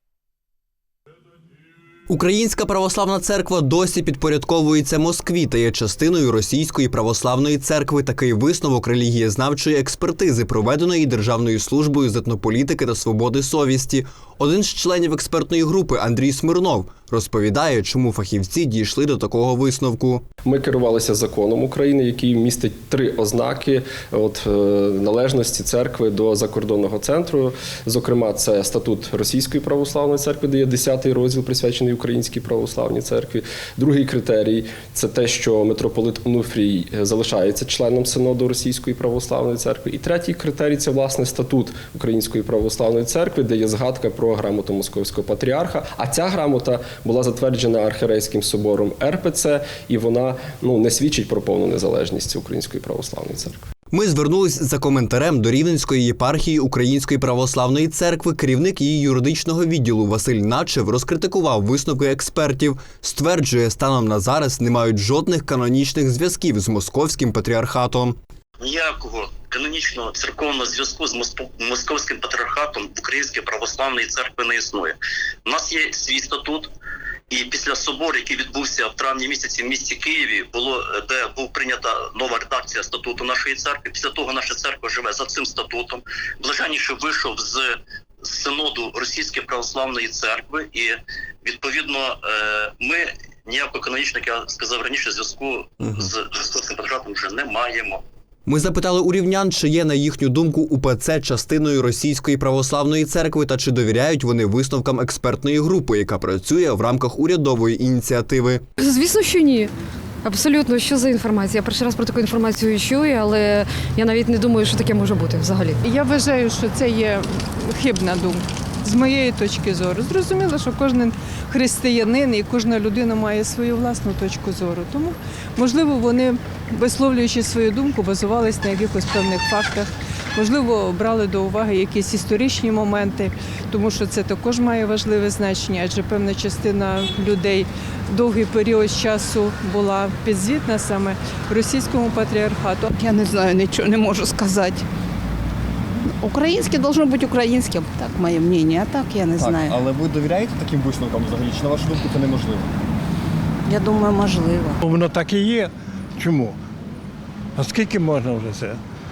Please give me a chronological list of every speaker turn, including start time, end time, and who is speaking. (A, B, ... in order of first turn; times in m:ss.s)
0:02.1-0:20.2 A
0:20.4-0:53.6 B
0:53.9-1:08.2 A
1:08.6-1:16.7 C
1:17.3-1:38.0 C
1:38.5-1:48.6 A
1:48.8-1:49.7 D
1:50.2-1:55.8 D
1:55.8-2:22.9 E
2:23.0-2:24.9 F
2:26.1-2:29.7 F
2:29.4-2:32.7 G
2:33.7-2:34.8 F
2:34.8-2:36.6 H
2:37.6-2:38.8 H